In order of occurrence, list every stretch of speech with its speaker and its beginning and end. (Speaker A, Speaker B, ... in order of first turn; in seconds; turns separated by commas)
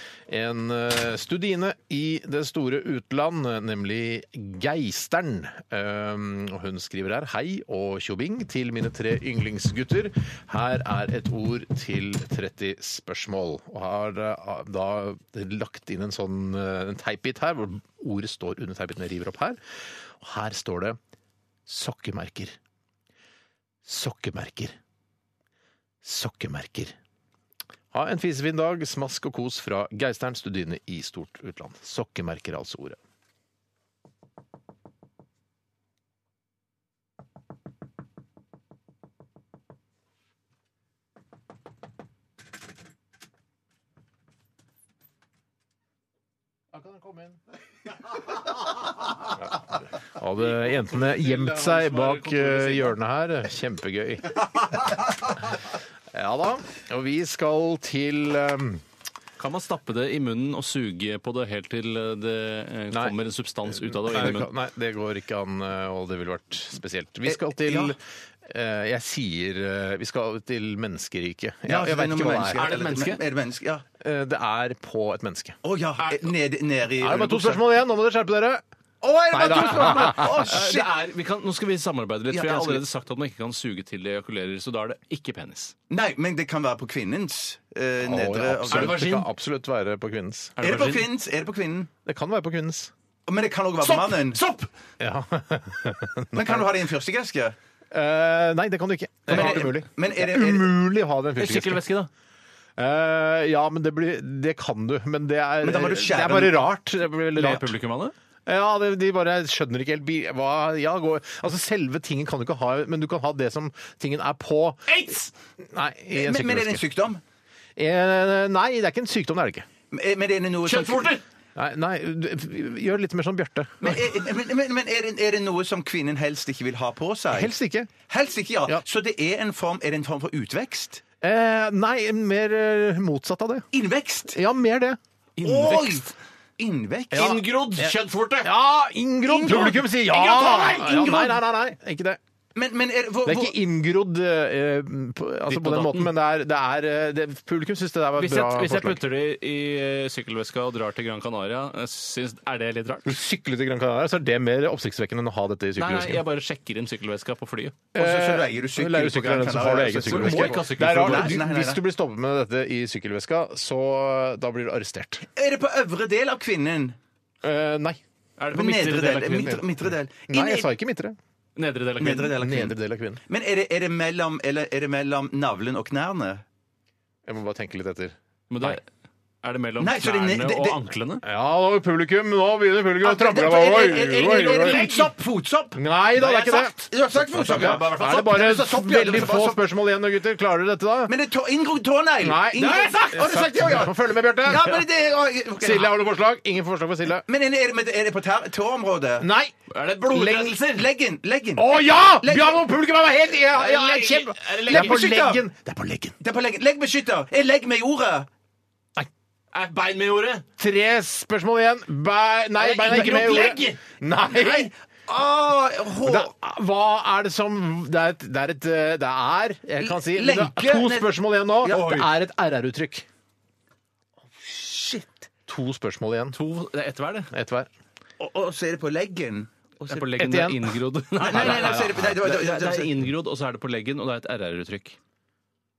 Speaker A: 0.3-19.6, Speaker A: 20.2-21.0, Speaker A: 21.6-22.6, Speaker A: 23.8-24.8, Speaker A: 26.0-26.9, Speaker A: 27.9-33.0, Speaker A: 46.7-47.4, Speaker A: 49.4-58.8, Speaker B: 50.5-53.0, Speaker B: 59.4-64.5, Speaker A: 62.9-72.7, Speaker C: 67.2-67.9, Speaker C: 71.7-73.8, Speaker B: 72.5-73.2, Speaker A: 74.0-75.6, Speaker C: 75.6-77.6, Speaker A: 77.0-78.6, Speaker C: 79.0-80.9, Speaker A: 79.3-80.5, Speaker B: 79.5-85.7, Speaker C: 82.3-82.8, Speaker C: 85.9-89.0, Speaker A: 88.0-90.6, Speaker B: 88.7-89.3, Speaker B: 90.6-91.0, Speaker C: 90.6-91.9, Speaker A: 92.0-92.9, Speaker C: 93.3-94.4, Speaker B: 93.8-94.7, Speaker A: 95.0-96.7, Speaker C: 96.3-97.5, Speaker A: 97.9-101.9, Speaker C: 99.3-100.7, Speaker B: 99.3-99.6, Speaker B: 101.4-102.1, Speaker A: 102.8-107.7, Speaker C: 105.6-106.7, Speaker B: 107.3-108.1, Speaker A: 108.5-116.8, Speaker B: 114.9-115.3, Speaker C: 116.1-117.2, Speaker A: 117.8-119.7, Speaker C: 119.9-121.2, Speaker B: 120.7-121.2, Speaker A: 121.5-124.2, Speaker C: 123.8-127.5, Speaker A: 127.3-127.9, Speaker C: 128.1-131.0, Speaker A: 131.2-133.7, Speaker C: 133.7-134.4, Speaker A: 134.3-135.0, Speaker B: 135.4-136.1, Speaker C: 135.4-137.4, Speaker A: 137.1-142.2, Speaker B: 137.1-138.5, Speaker C: 139.2-139.8, Speaker B: 139.5-141.3, Speaker C: 142.5-143.6, Speaker A: 143.2-149.0, Speaker B: 145.5-146.1, Speaker B: 148.2-153.2, Speaker A: 153.0-156.2, Speaker B: 155.8-157.8, Speaker A: 157.9-165.2, Speaker C: 157.9-161.8, Speaker B: 159.9-161.4, Speaker C: 165.3-166.9, Speaker A: 167.4-168.0, Speaker B: 168.4-169.6, Speaker C: 168.5-170.7, Speaker A: 170.3-171.2, Speaker B: 171.6-172.3, Speaker C: 172.0-172.7, Speaker A: 172.3-173.2, Speaker C: 173.3-176.4, Speaker A: 177.2-178.8, Speaker B: 178.5-178.8, Speaker B: 179.4-181.2, Speaker C: 179.8-180.8, Speaker A: 181.2-185.1, Speaker C: 183.0-189.6, Speaker A: 185.8-191.1, Speaker B: 187.4-188.6, Speaker C: 191.1-195.9, Speaker A: 192.2-194.8, Speaker B: 192.6-193.1, Speaker A: 195.6-197.2, Speaker C: 197.2-199.3, Speaker A: 199.2-199.5, Speaker B: 199.7-200.9, Speaker C: 200.1-202.8, Speaker A: 201.6-206.2, Speaker B: 203.6-205.0, Speaker C: 203.6-204.1, Speaker C: 204.7-205.4, Speaker C: 206.2-208.3, Speaker B: 209.5-210.4, Speaker A: 210.6-214.7, Speaker B: 212.6-213.8, Speaker C: 214.3-216.3, Speaker A: 216.0-223.1, Speaker C: 219.8-222.0, Speaker B: 221.7-222.0, Speaker C: 224.4-225.3, Speaker A: 225.5-226.4, Speaker B: 226.3-227.3, Speaker A: 227.3-227.7, Speaker C: 228.2-230.1, Speaker B: 229.9-235.0, Speaker A: 230.2-232.2, Speaker C: 231.2-233.0